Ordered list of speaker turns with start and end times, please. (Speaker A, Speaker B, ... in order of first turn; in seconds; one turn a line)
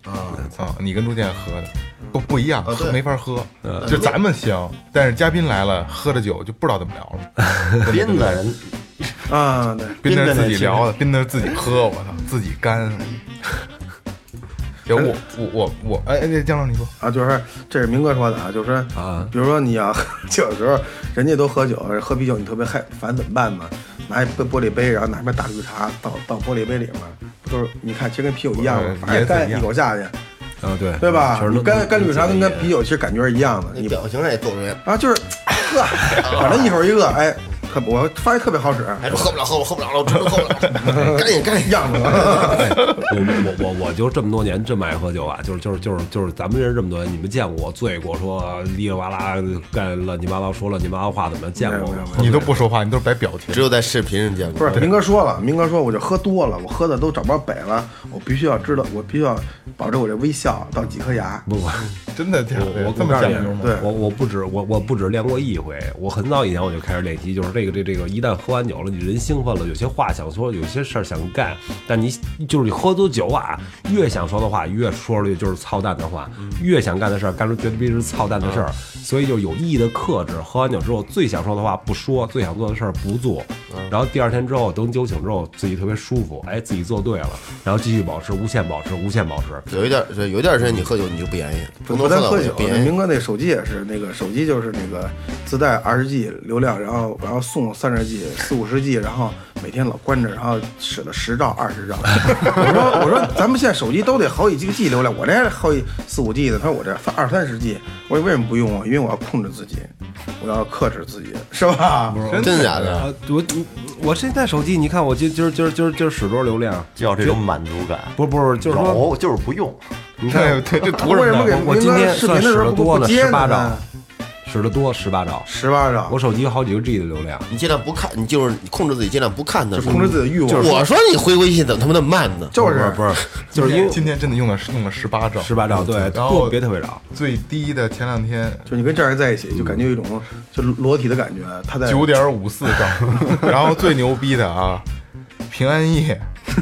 Speaker A: 0.6-7.3
Speaker B: 2.6-3.0
Speaker B: 3.8-4.2
Speaker C: 7.4-7.9
Speaker D: 7.8-9.3
Speaker E: 9.3-10.1
Speaker A: 10.0-13.2
Speaker D: 10.1-10.9
Speaker A: 14.9-16.9
Speaker E: 17.0-30.1
Speaker C: 18.9-19.3
Speaker A: 28.6-29.7
Speaker C: 30.6-32.8
Speaker E: 31.0-34.0
Speaker B: 33.7-34.9
Speaker E: 34.9-39.3
Speaker B: 36.2-36.8
Speaker B: 39.0-42.6
Speaker E: 40.7-42.8
Speaker C: 42.5-52.5
Speaker E: 51.6-52.5
Speaker A: 52.1-53.7
Speaker B: 53.5-54.9
Speaker E: 54.6-61.5
Speaker C: 61.5-61.9
Speaker A: 62.1-63.9
Speaker C: 62.5-89.7
Speaker E: 63.5-63.9
Speaker B: 89.7-93.0
Speaker E: 91.9-112.2
Speaker A: 111.8-113.0
Speaker B: 112.4-113.1
Speaker C: 113.0-117.4
Speaker D: 117.0-119.8
Speaker C: 118.2-119.0
Speaker C: 120.2-123.8
Speaker A: 120.3-121.5
Speaker E: 120.9-123.8
Speaker C: 124.4-125.5
Speaker E: 125.5-126.2
Speaker C: 126.1-127.5
Speaker B: 127.5-132.6
Speaker E: 129.7-130.9
Speaker C: 129.9-130.8
Speaker E: 132.5-133.2
Speaker C: 132.6-134.1
Speaker A: 133.5-138.8
Speaker C: 135.4-137.0
Speaker E: 138.7-142.2
Speaker A: 141.8-144.9
Speaker A: 145.5-146.3